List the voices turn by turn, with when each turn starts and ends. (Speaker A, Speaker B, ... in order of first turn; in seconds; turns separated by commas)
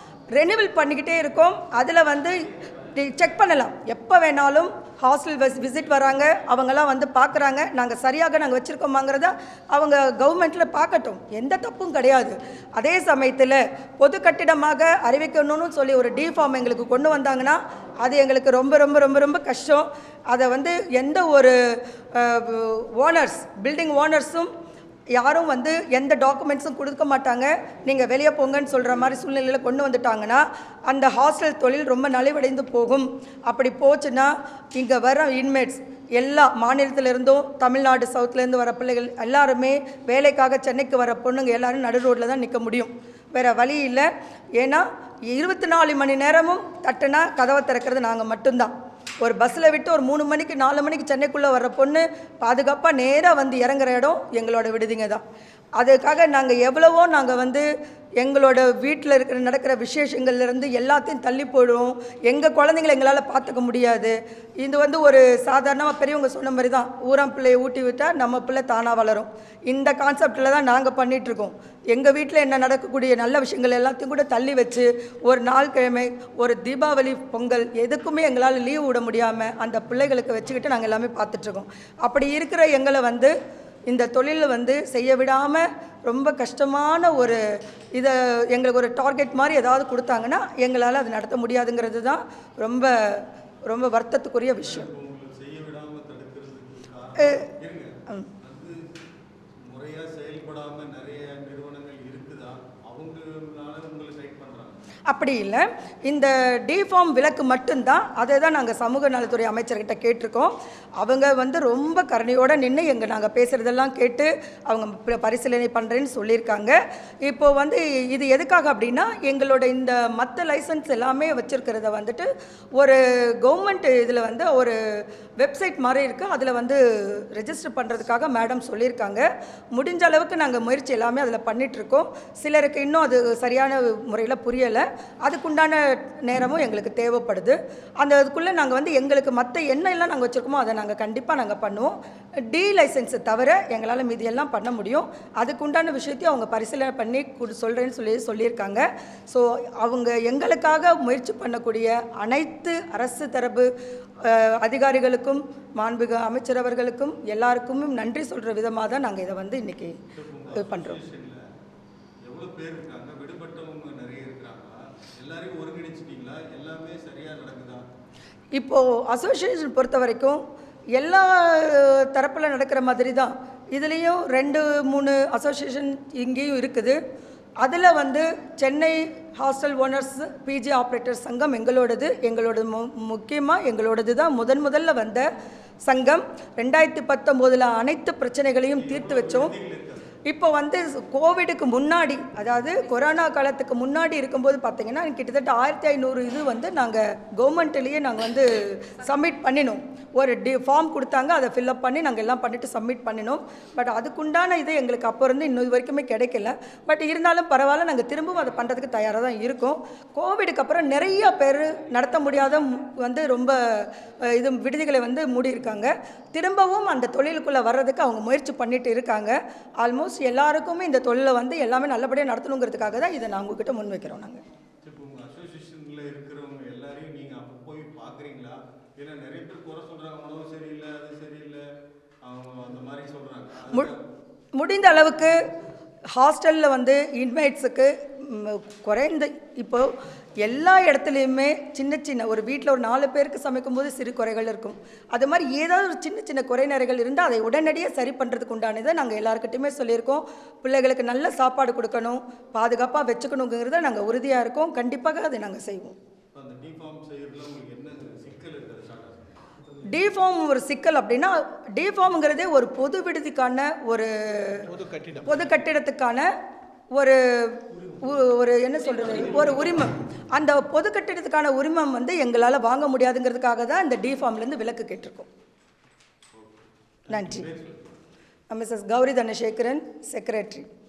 Speaker A: 0.3-24.5, Speaker A: 25.1-55.2, Speaker A: 55.8-57.7, Speaker A: 58.2-83.3, Speaker A: 83.9-94.9, Speaker B: 94.6-98.9, Speaker A: 97.2-97.5, Speaker B: 99.7-104.8, Speaker A: 105.1-124.8, Speaker A: 125.4-153.7, Speaker A: 154.2-160.0, Speaker B: 160.2-161.4, Speaker A: 160.6-161.0, Speaker B: 162.3-167.9, Speaker A: 168.6-170.4, Speaker A: 171.0-177.0, Speaker A: 177.6-185.3, Speaker A: 185.9-189.5, Speaker B: 188.7-190.1, Speaker A: 190.3-224.4, Speaker B: 224.8-231.7, Speaker B: 232.2-234.0, Speaker A: 234.6-235.5, Speaker A: 236.1-256.0, Speaker B: 256.3-259.2, Speaker A: 259.9-266.3, Speaker A: 266.9-275.3, Speaker B: 276.4-277.9, Speaker A: 277.1-277.5, Speaker A: 278.5-280.7